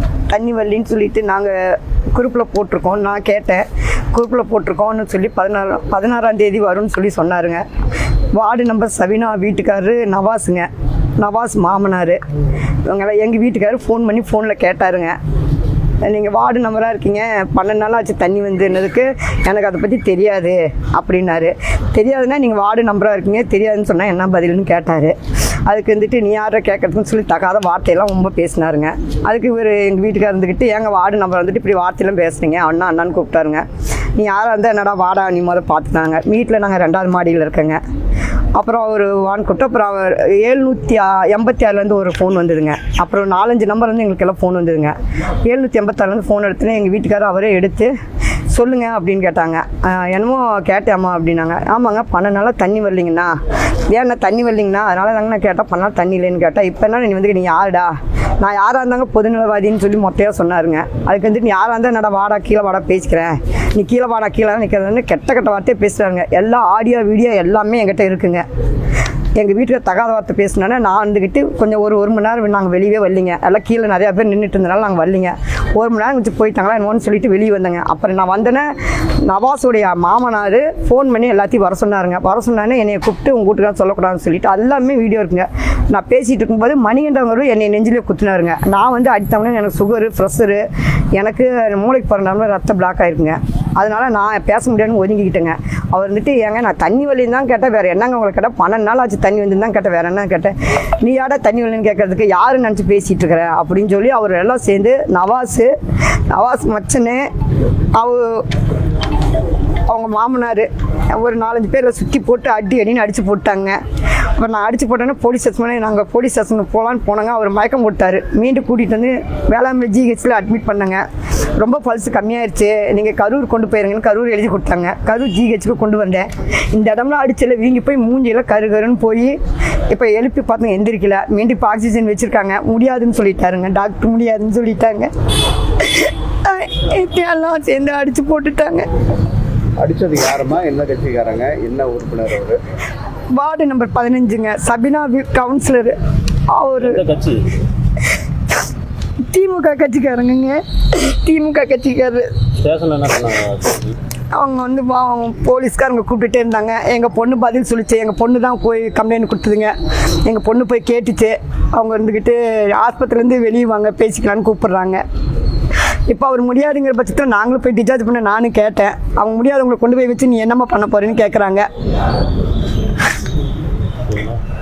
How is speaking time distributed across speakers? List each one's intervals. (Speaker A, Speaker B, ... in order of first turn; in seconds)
Speaker A: 0.3-7.7, 8.3-12.2, 12.8-15.2, 16.0-25.1, 25.7-37.8, 38.5-47.9, 48.5-53.4, 53.9-68.4, 69.3-105.7, 106.3-107.3, 108.0-108.5, 109.9-121.0, 121.6-129.3, 129.9-135.1, 135.8-138.9, 143.3-145.9, 146.5-147.0, 149.3-152.3, 154.3-165.0, 166.1-171.7
Speaker B: 139.8-142.6
Speaker C: 146.8-147.5, 152.6-154.0, 174.1-174.4